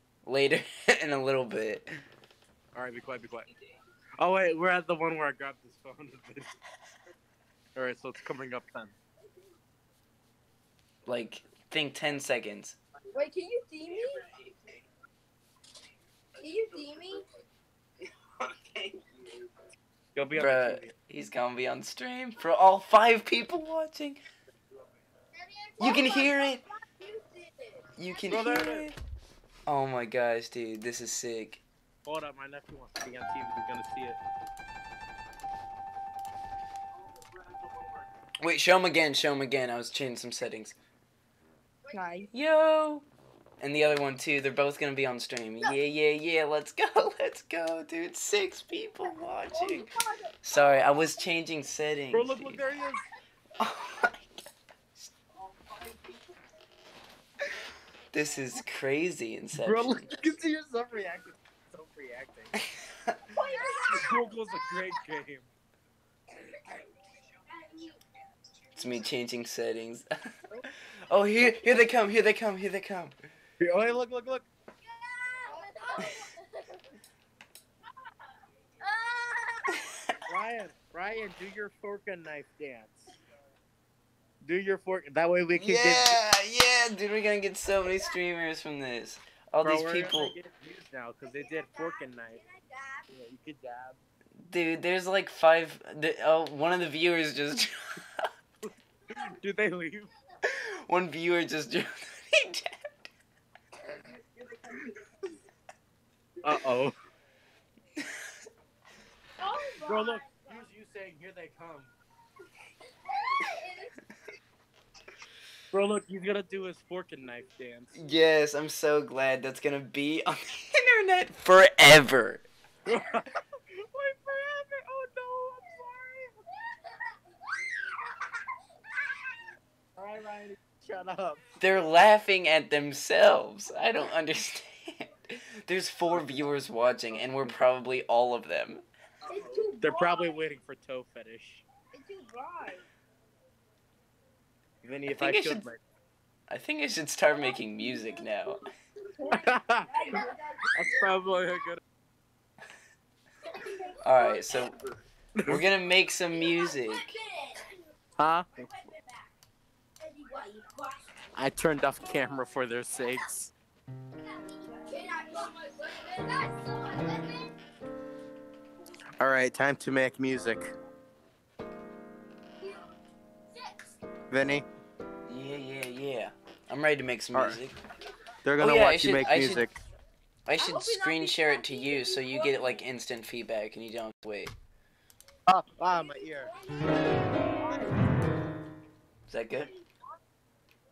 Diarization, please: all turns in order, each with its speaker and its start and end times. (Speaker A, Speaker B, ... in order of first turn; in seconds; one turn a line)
Speaker A: 0.2-1.9
Speaker B: 2.7-3.5
Speaker B: 4.2-6.5
Speaker B: 7.8-8.9
Speaker A: 11.1-12.8
Speaker C: 13.1-14.3
Speaker C: 16.4-17.2
Speaker A: 18.6-18.9
Speaker B: 20.1-20.9
Speaker A: 20.3-24.2
Speaker C: 25.4-28.6
Speaker A: 25.8-26.6
Speaker A: 28.0-29.0
Speaker B: 28.3-28.9
Speaker A: 29.7-31.6
Speaker B: 32.0-34.2
Speaker A: 38.4-40.8
Speaker C: 41.9-42.3
Speaker A: 42.3-43.0
Speaker A: 43.6-49.9
Speaker C: 49.5-50.8
Speaker A: 50.4-52.7
Speaker B: 52.1-53.0
Speaker A: 53.6-54.3
Speaker A: 58.1-60.1
Speaker B: 59.6-62.5
Speaker A: 62.6-63.2
Speaker C: 63.3-64.8
Speaker B: 63.8-65.5
Speaker C: 67.5-68.0
Speaker A: 68.8-70.1
Speaker A: 70.9-73.2
Speaker B: 73.6-74.5
Speaker C: 74.9-76.8
Speaker C: 78.8-79.8
Speaker A: 79.7-80.0
Speaker B: 80.2-83.1
Speaker B: 84.4-86.2
Speaker A: 85.5-90.4
Speaker B: 89.6-92.4
Speaker C: 91.3-93.1
Speaker B: 93.1-94.0
Speaker A: 94.4-98.3
Speaker B: 99.1-100.1
Speaker A: 100.4-102.8
Speaker B: 103.9-104.8
Speaker B: 106.4-107.0
Speaker A: 108.0-108.2
Speaker C: 109.4-110.7
Speaker B: 109.8-111.9
Speaker C: 113.1-114.0
Speaker B: 115.7-117.9
Speaker A: 117.9-122.5
Speaker B: 122.9-126.3
Speaker B: 130.0-131.4
Speaker A: 131.6-138.8
Speaker C: 139.3-140.4
Speaker B: 139.8-141.6
Speaker C: 141.9-142.8
Speaker B: 144.8-145.8
Speaker A: 145.1-145.7
Speaker A: 146.5-148.6
Speaker C: 149.2-151.4
Speaker B: 149.2-150.2
Speaker B: 150.7-151.8
Speaker C: 153.5-154.4
Speaker A: 154.0-154.8
Speaker A: 155.5-157.2
Speaker C: 156.3-157.7
Speaker B: 158.2-158.7
Speaker C: 158.6-159.3
Speaker C: 160.0-161.1
Speaker B: 161.3-163.5
Speaker C: 164.5-167.5
Speaker B: 169.2-170.7
Speaker C: 172.6-172.9
Speaker C: 173.5-174.0
Speaker B: 174.3-174.7
Speaker A: 175.3-177.8
Speaker B: 177.3-177.6
Speaker B: 178.4-179.7
Speaker A: 178.6-179.7
Speaker A: 180.5-184.6
Speaker C: 180.6-182.8
Speaker B: 185.5-186.5
Speaker C: 185.9-188.0
Speaker B: 187.6-187.9
Speaker A: 189.3-189.7